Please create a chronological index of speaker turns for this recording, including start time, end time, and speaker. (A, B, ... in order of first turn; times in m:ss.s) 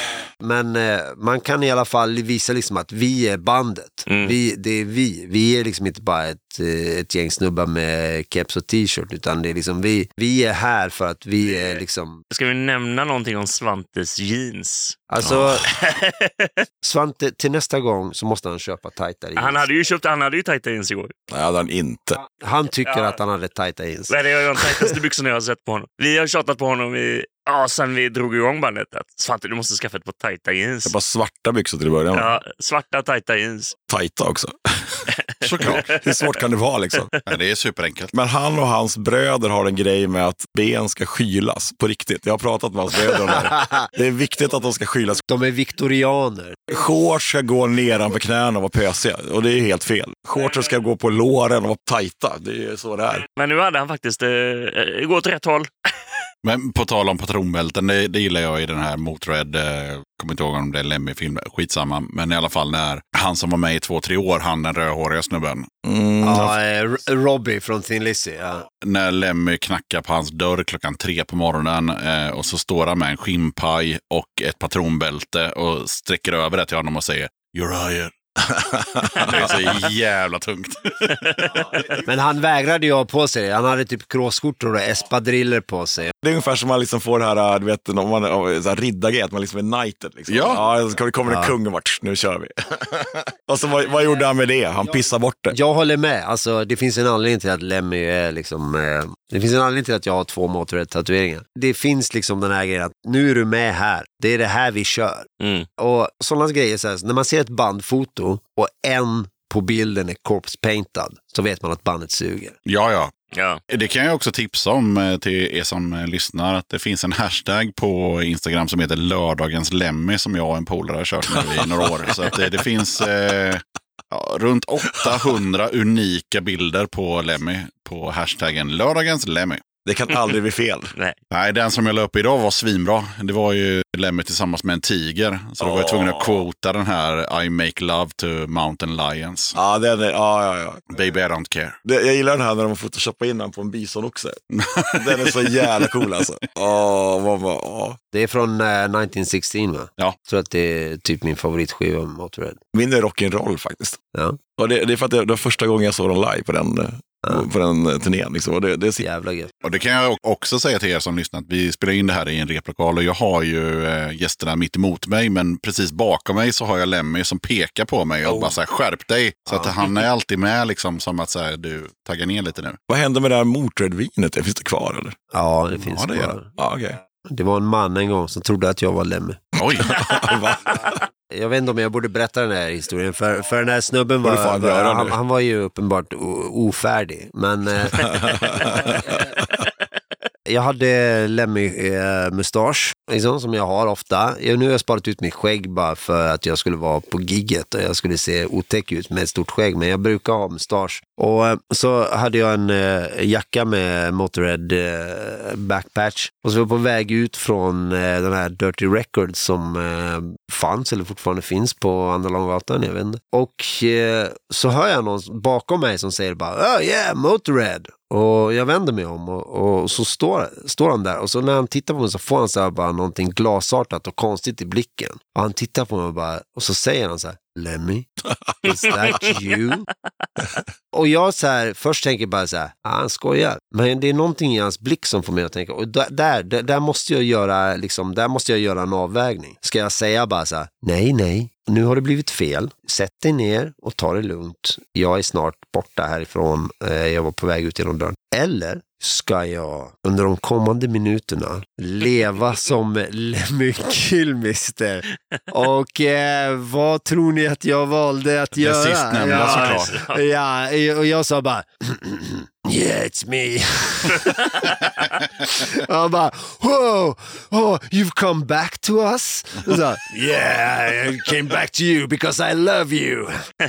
0:00.4-0:12.2 A
0:04.1-0:04.4 B
0:12.3-0:15.0 B
0:15.1-0:15.7 A
0:15.2-0:15.7 C
0:15.7-0:16.6 B
0:16.8-0:19.6 A
0:19.4-0:21.1 B
0:21.3-0:22.2 C
0:22.3-0:25.0 A
0:24.1-0:31.0 B
0:30.9-0:32.4 C
0:32.1-0:33.8 B
0:33.9-0:35.1 C
0:35.4-0:35.9 D
0:35.6-0:36.3 B
0:35.7-0:37.1 C
0:37.3-0:38.1 D
0:38.1-0:45.2 C
0:45.3-0:46.6 A
0:46.7-0:53.2 C
0:53.3-0:55.7 B
0:56.4-1:05.7 D
1:05.8-1:06.6 C
1:06.2-1:08.7 A
1:08.8-1:18.1 D
1:18.5-1:19.6 C
1:19.2-1:21.6 D
1:22.0-1:26.1 A
1:26.2-1:35.6 C
1:30.3-1:30.6 D
1:31.3-1:31.6 A
1:35.5-1:45.3 A
1:45.4-1:45.7 B
1:45.8-1:52.6 A
1:52.7-1:53.1 D
1:53.3-1:53.6 B
1:53.7-2:09.6 D
2:01.3-2:02.5 C
2:09.8-2:10.9 C
2:11.3-2:19.6 D
2:15.6-2:16.4 C
2:19.6-2:20.9 C
2:20.9-2:21.8 D
2:21.8-2:24.4 C
2:24.5-2:25.9 D
2:25.0-2:28.0 C
2:28.1-2:32.6 A
2:32.7-2:34.0 C
2:34.6-2:39.0 C
2:39.0-2:39.5 A
2:39.6-2:52.8 D
2:52.9-2:55.2 C
2:55.3-2:56.5 A
2:55.8-2:56.4 D
2:56.6-2:57.0 C
2:57.2-2:59.4 A
2:59.6-3:00.0 D
2:59.8-3:01.0 C
3:01.3-3:08.2 A
3:04.2-3:05.2 C
3:08.0-3:09.4 C
3:10.5-3:48.1 A
3:48.6-3:49.9 A
3:50.9-4:24.8 A
4:18.6-4:19.9 D
4:19.3-4:20.2 B
4:25.4-4:33.4 A